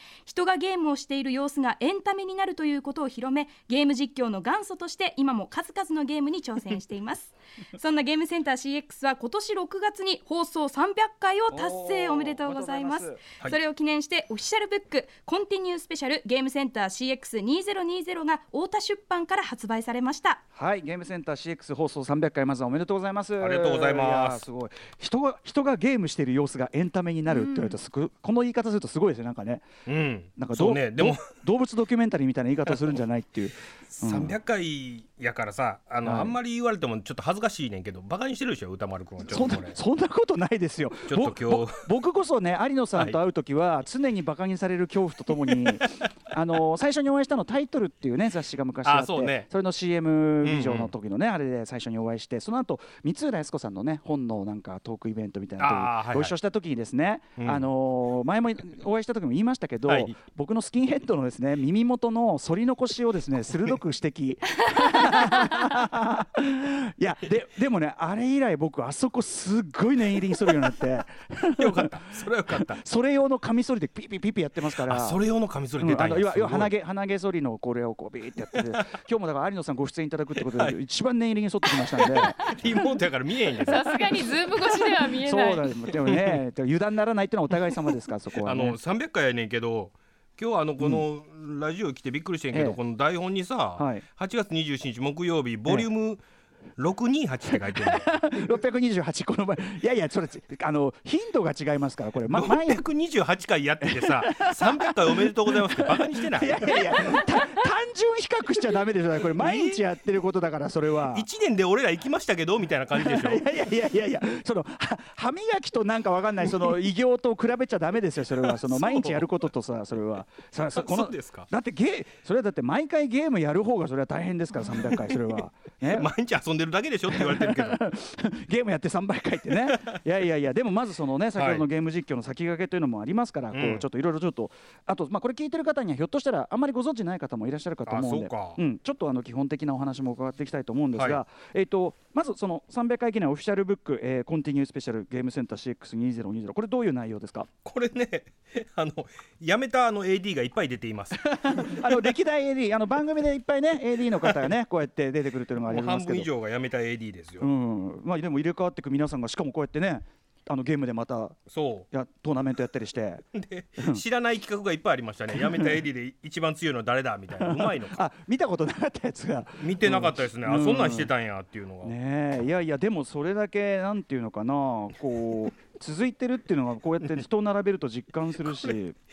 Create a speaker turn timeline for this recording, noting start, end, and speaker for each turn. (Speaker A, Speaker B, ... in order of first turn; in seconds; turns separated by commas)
Speaker A: 0.2-20.4, Speaker B: 11.5-13.2, Speaker B: 20.6-29.7, Speaker C: 23.4-24.4, Speaker D: 27.3-27.5, Speaker C: 29.9-31.3, Speaker B: 30.4-34.4, Speaker C: 32.6-33.0, Speaker C: 33.9-39.8, Speaker B: 36.0-36.4, Speaker B: 39.2-71.9, Speaker C: 41.1-41.9, Speaker C: 48.8-49.5, Speaker C: 50.4-50.9, Speaker C: 55.6-56.3, Speaker C: 57.4-57.7, Speaker C: 59.9-60.1, Speaker C: 71.6-72.8, Speaker B: 72.5-75.2, Speaker C: 74.7-76.7, Speaker B: 75.8-82.5, Speaker C: 80.5-80.8, Speaker C: 81.8-84.8, Speaker D: 83.5-85.7, Speaker B: 85.2-88.8, Speaker C: 86.1-86.4, Speaker C: 88.4-96.2, Speaker B: 90.8-91.0, Speaker B: 92.5-92.8, Speaker B: 93.8-94.0, Speaker C: 96.8-98.4, Speaker B: 97.5-102.8, Speaker C: 102.3-107.2, Speaker B: 103.8-111.2, Speaker C: 109.3-109.8, Speaker C: 111.1-113.4, Speaker B: 112.9-126.1, Speaker C: 118.3-119.3, Speaker C: 120.7-121.5, Speaker C: 124.7-125.1, Speaker C: 125.9-127.8, Speaker B: 127.1-147.5, Speaker C: 129.7-130.0, Speaker C: 131.4-131.7, Speaker C: 133.5-133.8, Speaker C: 137.9-138.6, Speaker C: 140.9-141.2, Speaker C: 147.6-151.9, Speaker B: 151.1-156.3, Speaker C: 154.1-154.5, Speaker C: 155.7-157.5, Speaker B: 157.4-161.4, Speaker C: 161.5-161.8, Speaker B: 161.9-163.2, Speaker C: 163.3-168.0, Speaker B: 165.3-165.8, Speaker B: 167.4-171.1, Speaker C: 169.6-171.9, Speaker B: 171.8-178.9, Speaker C: 178.4-178.7